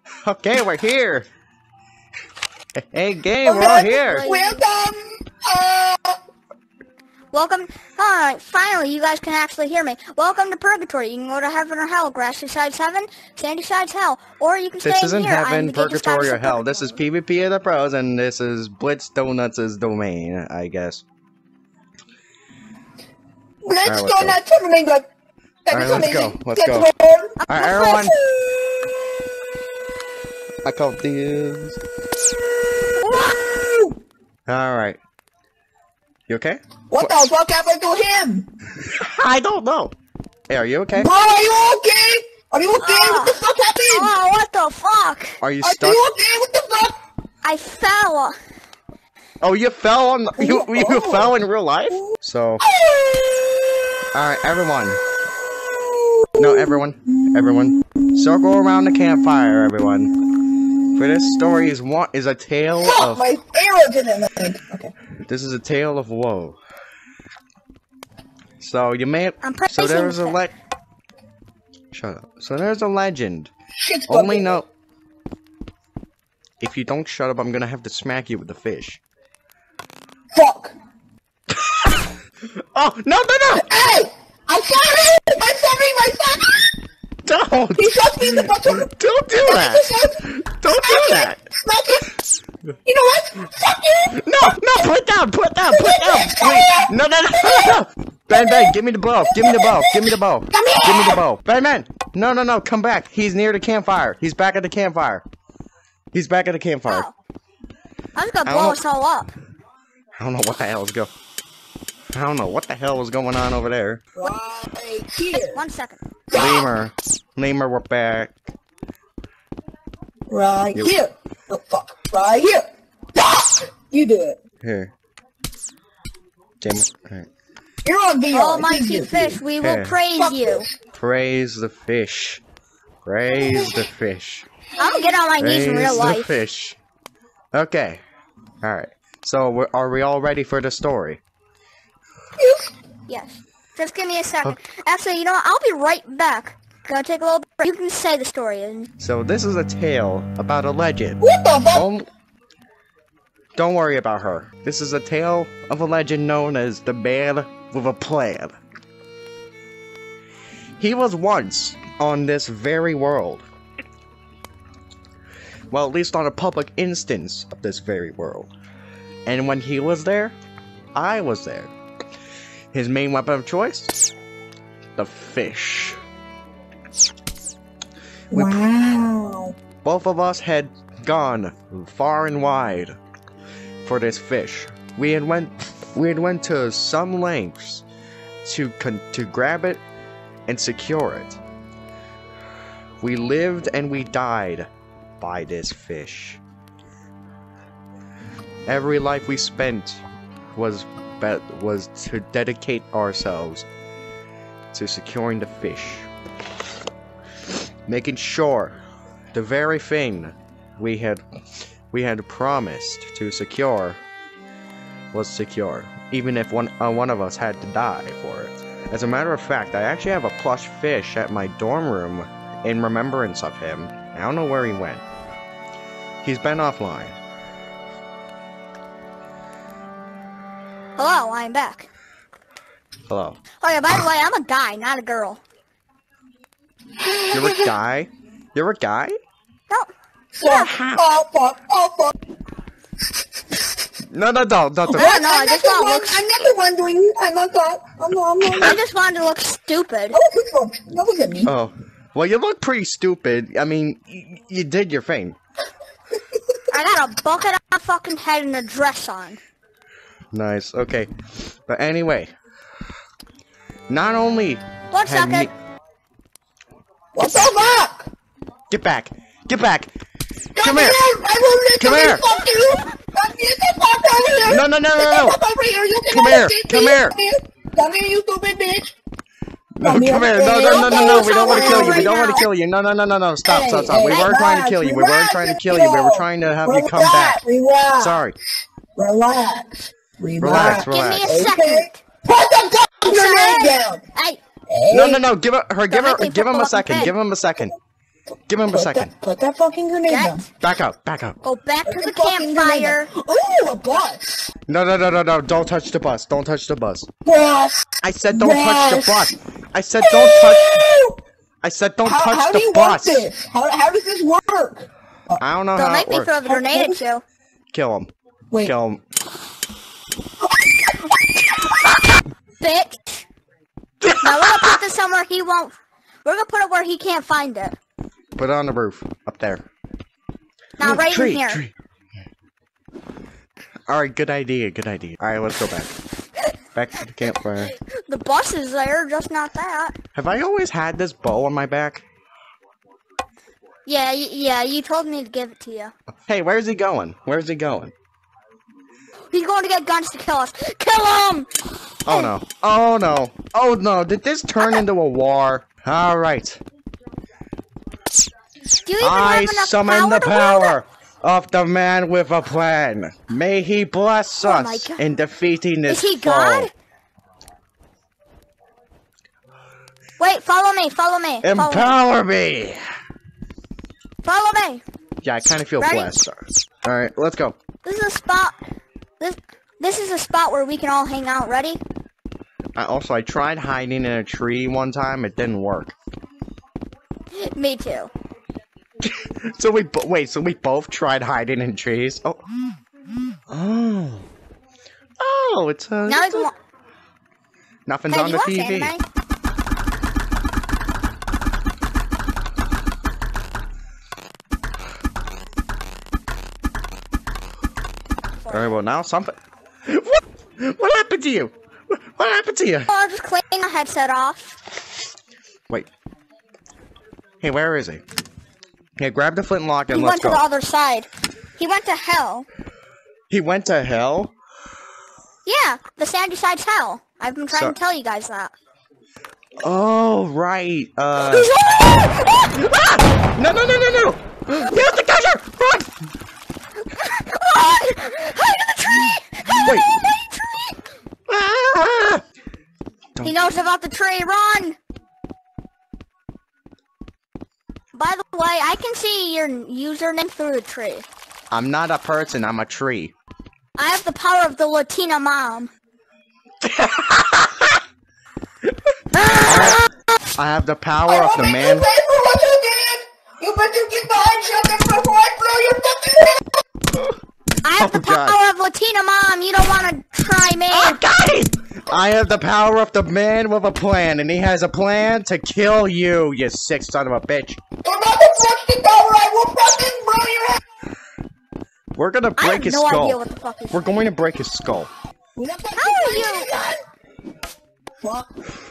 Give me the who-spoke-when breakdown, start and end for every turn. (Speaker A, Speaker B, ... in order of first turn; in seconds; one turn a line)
Speaker A: 0.2-1.3
Speaker A: 2.8-4.2
Speaker B: 3.4-6.2
Speaker C: 3.6-4.6
Speaker C: 7.3-17.0
Speaker A: 14.8-21.0
Speaker B: 23.6-25.1
Speaker A: 23.8-24.4
Speaker B: 25.6-27.4
Speaker A: 25.7-26.9
Speaker C: 27.4-28.1
Speaker A: 27.5-28.1
Speaker B: 27.9-28.6
Speaker A: 30.6-31.8
Speaker B: 33.1-34.0
Speaker A: 34.5-35.0
Speaker A: 36.3-37.1
Speaker B: 36.9-38.5
Speaker A: 38.8-39.9
Speaker A: 40.5-41.1
Speaker B: 40.9-44.1
Speaker C: 42.8-45.4
Speaker A: 45.4-46.0
Speaker B: 45.6-46.9
Speaker C: 47.4-48.3
Speaker A: 49.4-52.6
Speaker B: 50.4-51.4
Speaker B: 52.6-53.6
Speaker A: 54.1-55.0
Speaker B: 55.8-56.8
Speaker A: 56.4-60.1
Speaker A: 60.9-63.2
Speaker B: 62.8-64.9
Speaker A: 65.2-66.6
Speaker A: 68.6-70.5
Speaker C: 69.4-70.4
Speaker A: 71.9-73.5
Speaker B: 73.8-74.6
Speaker A: 74.1-74.7
Speaker A: 76.6-79.0
Speaker B: 80.3-80.8
Speaker A: 82.5-83.7
Speaker B: 83.5-86.7
Speaker A: 87.2-91.4
Speaker B: 87.8-90.2
Speaker B: 90.7-92.1
Speaker B: 92.8-94.2
Speaker A: 94.1-105.2
Speaker B: 95.7-97.7
Speaker B: 98.3-98.7
Speaker B: 99.3-101.2
Speaker A: 106.1-107.1
Speaker C: 106.9-107.1
Speaker C: 108.2-109.3
Speaker A: 108.5-108.8
Speaker A: 110.2-111.1
Speaker A: 112.1-114.0
Speaker B: 114.2-115.6
Speaker C: 115.5-116.0
Speaker B: 116.3-116.7
Speaker A: 116.3-118.3
Speaker B: 120.3-124.4
Speaker A: 124.6-124.9
Speaker A: 126.6-127.3
Speaker B: 127.8-129.4
Speaker C: 128.3-130.7
Speaker A: 129.6-130.0
Speaker B: 130.2-130.7
Speaker A: 130.9-132.4
Speaker A: 133.0-134.5
Speaker B: 133.3-133.8
Speaker C: 134.8-136.4
Speaker B: 134.8-135.1
Speaker A: 135.4-136.8
Speaker A: 137.5-138.0
Speaker A: 138.6-141.2
Speaker B: 142.4-142.7
Speaker C: 143.1-148.9
Speaker A: 149.0-151.2
Speaker B: 151.2-151.9
Speaker A: 151.7-152.1
Speaker A: 153.6-158.5
Speaker A: 160.8-163.4
Speaker A: 165.7-168.5
Speaker A: 169.2-170.3
Speaker A: 170.9-171.7
Speaker A: 172.7-173.9
Speaker A: 174.9-176.0
Speaker B: 178.3-179.6
Speaker A: 178.3-178.6
Speaker A: 179.8-183.0
Speaker A: 183.8-187.8
Speaker A: 188.4-189.8
Speaker A: 190.5-191.4
Speaker A: 193.0-194.7
Speaker A: 195.2-196.4
Speaker A: 198.7-203.7
Speaker A: 204.7-206.1
Speaker A: 207.9-208.8
Speaker A: 209.3-211.2
Speaker A: 211.9-214.0
Speaker A: 215.1-225.0
Speaker A: 226.2-227.2
Speaker C: 231.0-231.9
Speaker A: 233.1-233.4
Speaker C: 233.6-235.4
Speaker B: 237.0-237.7
Speaker A: 237.3-239.2
Speaker C: 239.7-240.7
Speaker B: 240.3-242.1
Speaker A: 240.5-241.0
Speaker A: 244.1-245.1
Speaker B: 244.9-248.8
Speaker C: 244.9-246.2
Speaker C: 248.4-250.2
Speaker B: 250.1-251.5
Speaker A: 251.4-255.4
Speaker C: 256.7-259.4
Speaker A: 260.3-261.1
Speaker A: 261.7-262.3
Speaker A: 263.9-265.5
Speaker C: 264.9-265.5
Speaker B: 267.1-268.1
Speaker A: 268.7-269.9
Speaker B: 270.5-278.9
Speaker A: 270.6-271.0
Speaker A: 271.8-272.2
Speaker A: 274.4-275.4
Speaker A: 276.1-277.1
Speaker A: 279.8-287.4
Speaker B: 279.8-282.4
Speaker C: 280.5-282.4
Speaker B: 283.4-288.2
Speaker A: 288.0-288.3
Speaker B: 288.9-294.1
Speaker A: 290.4-291.3
Speaker C: 290.5-292.0
Speaker C: 293.0-294.4
Speaker B: 294.7-295.2
Speaker A: 294.9-297.8
Speaker C: 295.9-297.1
Speaker A: 298.5-299.1
Speaker B: 298.7-300.4
Speaker C: 300.1-300.4
Speaker A: 300.6-301.4
Speaker C: 301.4-303.1
Speaker B: 301.9-304.5
Speaker A: 304.7-307.1
Speaker B: 307.2-309.3
Speaker A: 308.0-310.7
Speaker B: 310.0-311.2
Speaker A: 311.6-313.2
Speaker B: 312.0-315.4
Speaker A: 315.4-316.3
Speaker C: 315.8-317.2
Speaker B: 316.4-317.0
Speaker A: 317.7-319.0
Speaker B: 320.5-321.6
Speaker C: 322.6-323.2
Speaker A: 324.0-324.6
Speaker C: 324.2-327.8
Speaker A: 328.4-329.7
Speaker C: 330.8-331.6
Speaker A: 330.8-331.7
Speaker A: 333.9-335.9
Speaker A: 336.7-337.7
Speaker C: 337.8-339.9
Speaker A: 340.1-342.1
Speaker C: 343.9-345.9
Speaker A: 346.3-347.9
Speaker C: 349.3-351.5
Speaker A: 352.1-356.6
Speaker C: 352.1-352.3
Speaker C: 358.8-360.8
Speaker A: 359.0-366.7
Speaker C: 364.4-365.0
Speaker C: 365.9-366.7
Speaker C: 370.2-371.9
Speaker A: 371.4-372.8
Speaker C: 374.2-374.8
Speaker A: 375.2-377.6
Speaker C: 375.8-376.1
Speaker C: 377.8-378.6
Speaker C: 379.2-381.8
Speaker A: 382.8-385.9
Speaker C: 387.4-388.1
Speaker A: 389.0-392.4
Speaker A: 393.5-394.3
Speaker A: 395.2-396.5
Speaker C: 396.1-396.5
Speaker A: 397.9-398.9
Speaker C: 398.1-399.0
Speaker C: 408.4-408.8
Speaker A: 408.5-409.3
Speaker A: 409.9-412.9
Speaker C: 412.9-414.6
Speaker A: 417.4-418.0
Speaker A: 419.0-420.4
Speaker C: 419.9-422.5
Speaker A: 423.3-424.3
Speaker C: 425.4-428.5
Speaker A: 429.6-431.6
Speaker C: 431.2-432.5
Speaker A: 432.4-435.9
Speaker C: 436.9-440.8
Speaker A: 439.6-439.9
Speaker A: 441.3-442.2
Speaker C: 443.2-444.8
Speaker C: 447.9-451.0
Speaker A: 451.5-453.1
Speaker C: 453.8-455.7
Speaker A: 456.6-457.7
Speaker C: 459.1-459.9
Speaker A: 459.4-459.8
Speaker A: 460.3-461.9
Speaker B: 461.1-466.6
Speaker C: 467.6-471.0
Speaker A: 467.8-468.4
Speaker A: 470.7-477.6
Speaker B: 477.8-480.6
Speaker A: 481.9-483.2
Speaker C: 482.4-483.9
Speaker A: 483.7-484.9
Speaker B: 485.4-486.8
Speaker C: 485.8-486.5
Speaker B: 488.0-488.3